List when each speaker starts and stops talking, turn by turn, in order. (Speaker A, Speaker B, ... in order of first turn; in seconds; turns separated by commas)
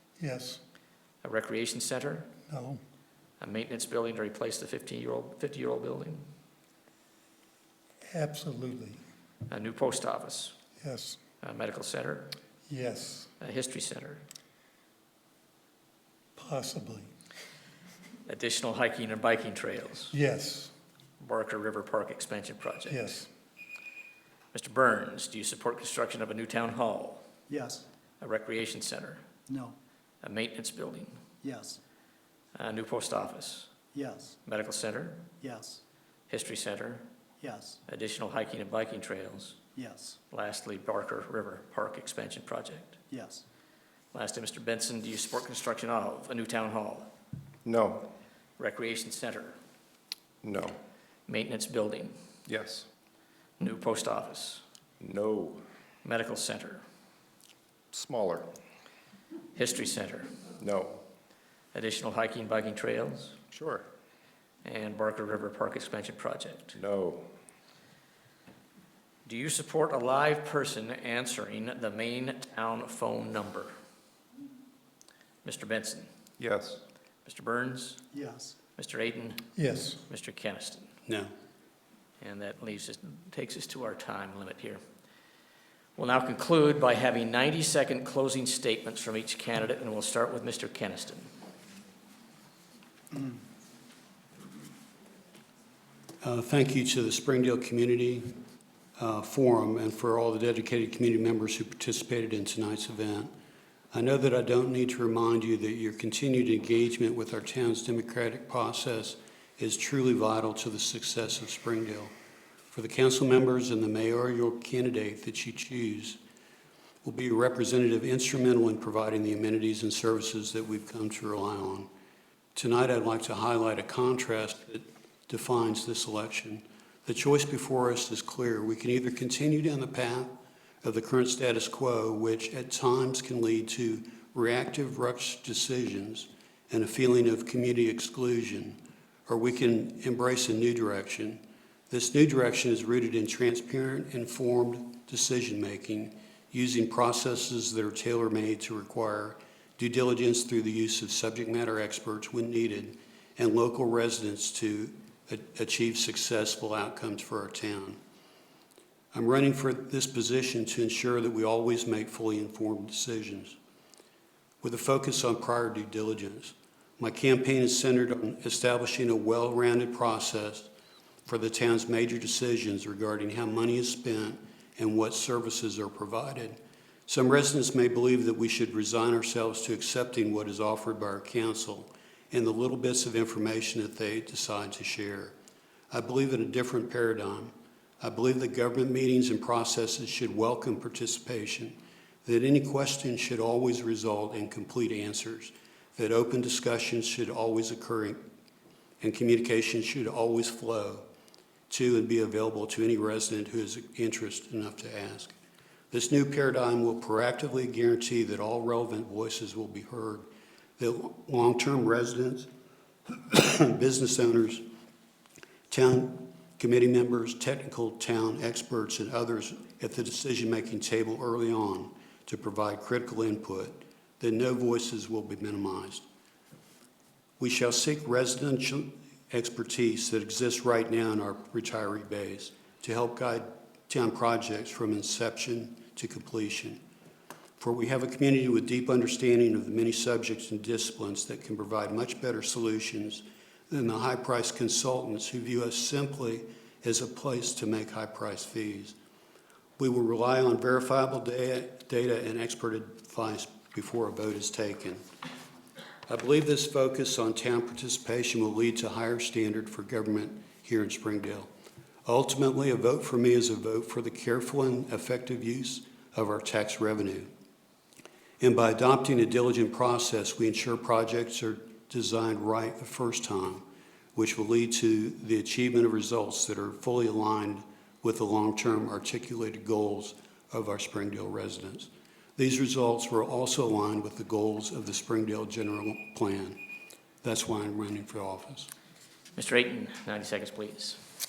Speaker A: 0.2-0.6, Speaker B: 1.2-2.3, Speaker A: 2.5-2.8, Speaker B: 3.4-6.2, Speaker A: 8.1-9.0, Speaker B: 9.5-10.5, Speaker A: 10.8-11.2, Speaker B: 11.4-12.4, Speaker A: 12.7-13.3, Speaker B: 13.4-14.2, Speaker A: 16.4-17.1, Speaker B: 18.3-20.1, Speaker A: 20.1-20.7, Speaker B: 21.2-23.1, Speaker A: 22.9-23.3, Speaker B: 24.5-27.2, Speaker C: 27.5-27.9, Speaker B: 28.2-29.2, Speaker C: 29.5-29.8, Speaker B: 30.2-31.2, Speaker C: 31.4-31.8, Speaker B: 32.5-33.7, Speaker C: 33.9-34.4, Speaker B: 34.5-35.3, Speaker C: 35.4-35.8, Speaker B: 36.3-37.0, Speaker C: 37.4-37.8, Speaker B: 37.9-39.6, Speaker C: 39.8-40.2, Speaker B: 40.3-43.0, Speaker C: 43.1-43.4, Speaker B: 44.1-47.1, Speaker D: 47.6-48.1, Speaker B: 48.6-49.6, Speaker D: 50.4-50.8, Speaker B: 51.3-52.1, Speaker D: 52.5-52.9, Speaker B: 53.6-54.6, Speaker D: 55.0-55.6, Speaker B: 56.0-56.8, Speaker D: 57.9-58.5, Speaker B: 59.5-60.3, Speaker D: 60.6-61.0, Speaker B: 61.7-63.4, Speaker D: 63.5-63.9, Speaker B: 64.7-66.8, Speaker D: 66.8-67.3, Speaker B: 69.3-73.7, Speaker B: 75.4-76.1, Speaker D: 76.4-76.8, Speaker B: 77.2-78.0, Speaker C: 78.1-78.5, Speaker B: 78.8-80.9, Speaker A: 79.6-80.0, Speaker B: 82.2-84.8, Speaker B: 86.0-91.3, Speaker E: 96.2-98.3, Speaker E: 99.0-103.3, Speaker E: 103.9-112.1, Speaker E: 112.7-116.2, Speaker E: 117.0-121.9, Speaker E: 122.5-130.3, Speaker E: 130.8-158.0, Speaker E: 159.1-163.6, Speaker E: 164.6-170.7, Speaker E: 171.3-185.3, Speaker E: 185.9-198.2, Speaker E: 199.0-201.0, Speaker E: 201.7-205.3, Speaker E: 205.9-210.3, Speaker E: 210.8-212.5, Speaker E: 213.1-214.6, Speaker E: 215.7-226.0, Speaker E: 227.4-236.8, Speaker E: 237.6-249.0, Speaker E: 249.8-255.0, Speaker E: 256.1-261.5, Speaker E: 262.1-267.3, Speaker E: 268.4-286.6, Speaker E: 287.2-288.7, Speaker B: 289.4-291.0